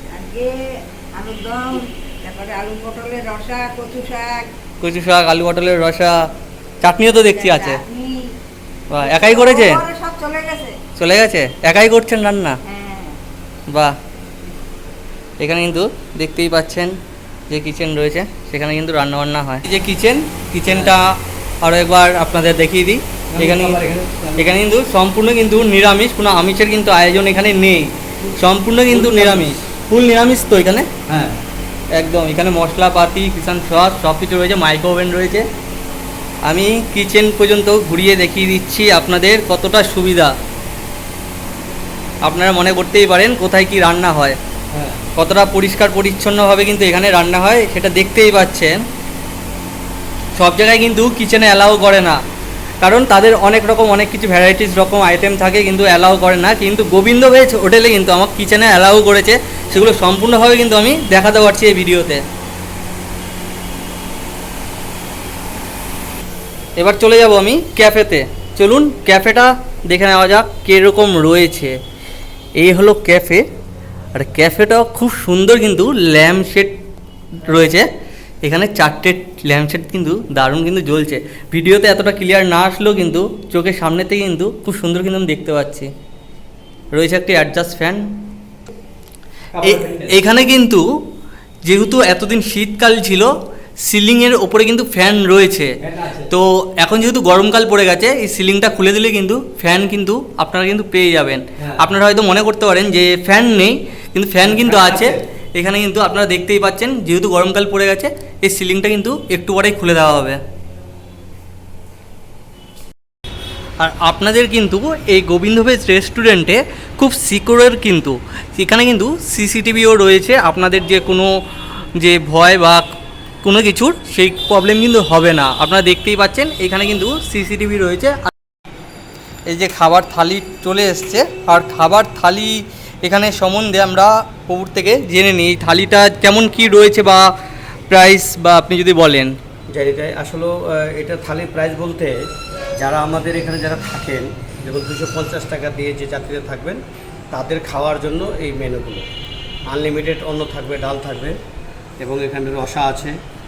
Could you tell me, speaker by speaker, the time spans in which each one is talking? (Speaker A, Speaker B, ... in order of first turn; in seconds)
Speaker A: 0.1-4.5, 7.3-8.4, 9.0-10.8, 12.6-13.2
Speaker B: 4.8-6.3, 6.8-7.8, 8.9-9.9, 11.0-12.6, 13.7-13.9, 15.4-16.9, 17.5-30.9, 31.9-35.5, 36.5-40.3, 42.2-44.4, 45.0-48.8, 50.4-52.2, 52.8-62.2, 66.8-71.8, 72.6-73.5, 74.2-76.8, 77.4-77.9, 78.4-85.9, 86.9-88.2, 89.6-90.8, 91.7-93.3, 93.8-110.4, 113.8-121.4, 122.0-122.8, 123.4-128.3, 129.5-137.3, 137.9-139.3
Speaker C: 23.4-24.6, 28.9-29.6, 31.1-31.4, 89.5-90.1, 95.9-96.3, 104.7-105.0, 139.7-142.2, 142.8-146.8, 147.3-149.1, 149.7-151.4, 152.0-153.2